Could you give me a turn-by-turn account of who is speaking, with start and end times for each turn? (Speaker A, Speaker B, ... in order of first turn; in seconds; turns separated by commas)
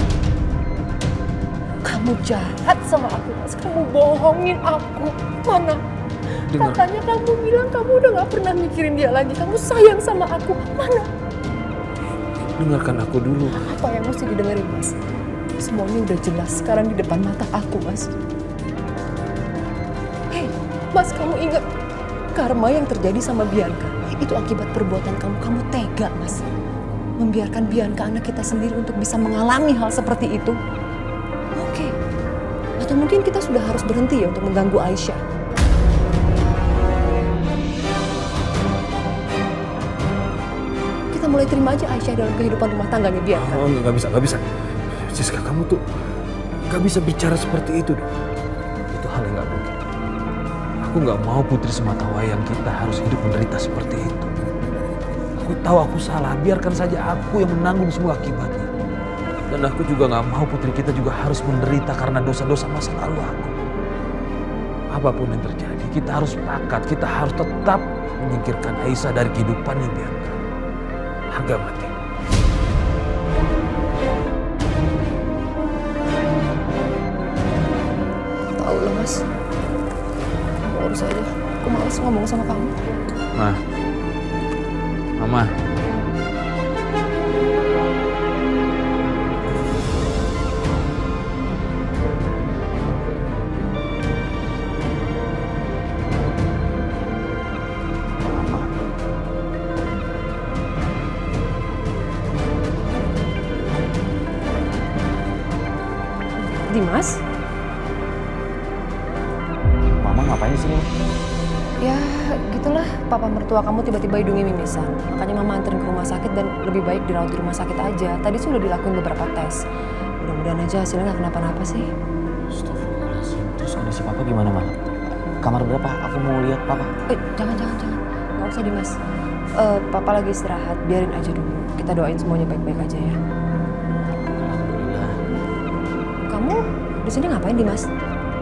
Speaker A: 1.8-5.8, Speaker B: 6.5-6.8, Speaker A: 6.5-11.1, Speaker B: 12.6-13.6, Speaker A: 13.5-14.9, Speaker A: 15.6-18.1, Speaker A: 20.3-21.6, Speaker A: 22.3-26.4, Speaker A: 27.2-30.6, Speaker A: 31.6-31.9, Speaker A: 32.8-35.2, Speaker A: 41.1-43.6, Speaker B: 43.3-44.4, Speaker B: 45.0-45.8, Speaker B: 46.7-48.1, Speaker B: 48.9-49.8, Speaker B: 50.8-54.5, Speaker B: 55.4-58.7, Speaker B: 59.5-63.5, Speaker B: 64.9-70.3, Speaker B: 71.3-71.9, Speaker A: 78.6-79.2, Speaker A: 80.6-82.8, Speaker B: 85.2-85.5, Speaker C: 98.3-98.6, Speaker A: 106.4-107.2, Speaker C: 110.0-110.8, Speaker A: 111.8-119.6, Speaker A: 120.2-121.9, Speaker C: 122.7-124.8, Speaker C: 125.4-126.9, Speaker A: 127.1-128.9, Speaker A: 129.6-133.2, Speaker C: 134.1-135.1, Speaker A: 136.3-137.9